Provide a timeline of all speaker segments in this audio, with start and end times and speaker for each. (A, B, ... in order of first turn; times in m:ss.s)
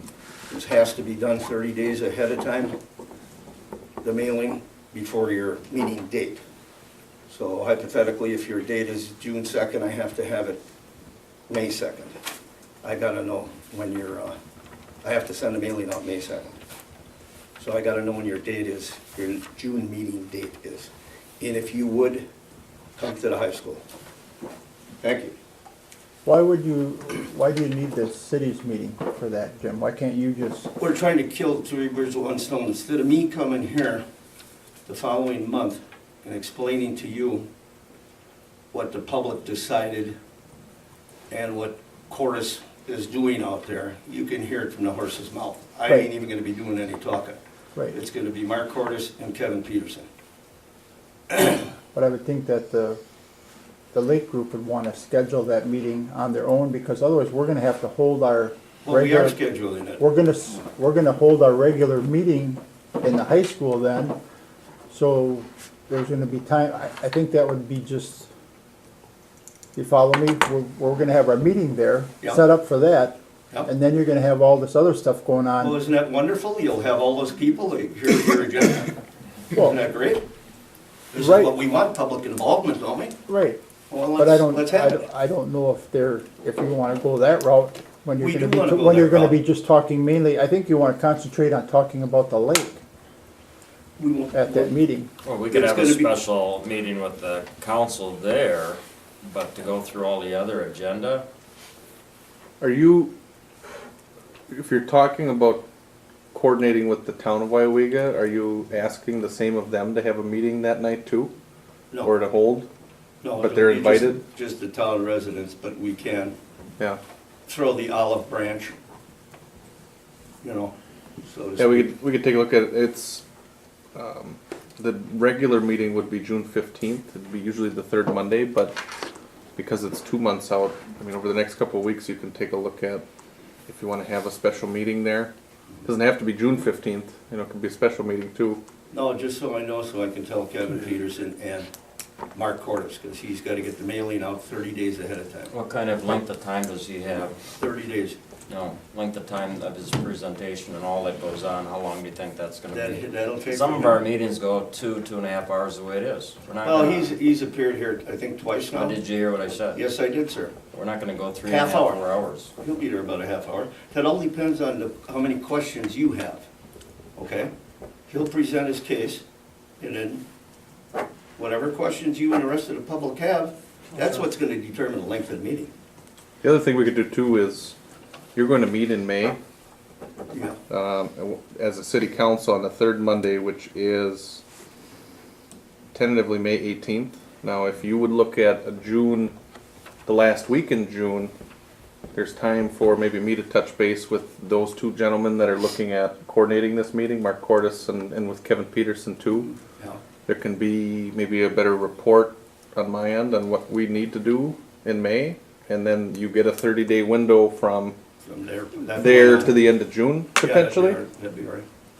0:00.5-0:02.7 A
0:04.0-0:06.4 A
0:07.3-0:10.6 A
0:11.5-0:12.2 A
0:12.8-0:14.4 A
0:15.0-0:16.6 A
0:17.6-0:22.2 A
0:23.0-0:23.8 A
0:25.0-0:25.3 A
0:26.2-0:30.7 B
0:30.8-0:34.0 A
0:34.8-0:37.4 A
0:38.7-0:40.2 A
0:41.3-0:47.4 A
0:47.9-0:50.1 A
0:51.9-0:53.0 B
0:53.9-0:59.4 B
0:58.8-1:00.0 A
1:00.0-1:04.2 B
1:04.9-1:08.3 B
1:09.7-1:15.8 B
1:15.6-1:18.9 A
1:19.5-1:20.2 A
1:21.1-1:23.2 A
1:21.1-1:21.5 B
1:23.3-1:23.6 B
1:23.9-1:25.0 A
1:24.2-1:32.8 B
1:28.2-1:29.4 A
1:34.0-1:34.7 A
1:34.3-1:35.1 B
1:35.2-1:41.2 C
1:35.5-1:36.2 A
1:42.6-1:43.1 D
1:44.5-1:45.6 D
1:46.3-1:51.3 D
1:52.0-1:52.7 D
1:53.2-1:56.3 A
1:53.4-1:54.2 D
1:57.5-1:58.7 A
2:00.4-2:01.9 A
2:01.6-2:03.2 D
2:03.9-2:08.8 D
2:09.6-2:13.0 D
2:13.7-2:15.3 D
2:15.8-2:18.6 D
2:18.9-2:21.7 A
2:22.3-2:25.5 A
2:25.5-2:27.4 C
2:27.6-2:28.2 A
2:28.5-2:37.1 C
2:32.7-2:34.0 A
2:36.6-2:39.0 A
2:38.7-2:39.8 C
2:39.7-2:40.6 A
2:40.7-2:42.5 C
2:41.4-2:42.0 A
2:42.6-2:46.4 A
2:47.2-2:47.5 A
2:48.1-2:49.2 A
2:49.8-2:50.2 A
2:51.4-2:55.7 A
2:56.4-2:57.7 D
2:58.3-2:59.4 D
3:00.3-3:00.6 A
3:00.7-3:04.4 D
3:05.9-3:09.3 D
3:10.0-3:11.3 D
3:12.1-3:19.5 D
3:19.7-3:20.0 A
3:20.3-3:28.0 D
3:28.2-3:29.6 A
3:28.9-3:31.0 D
3:30.4-3:31.6 A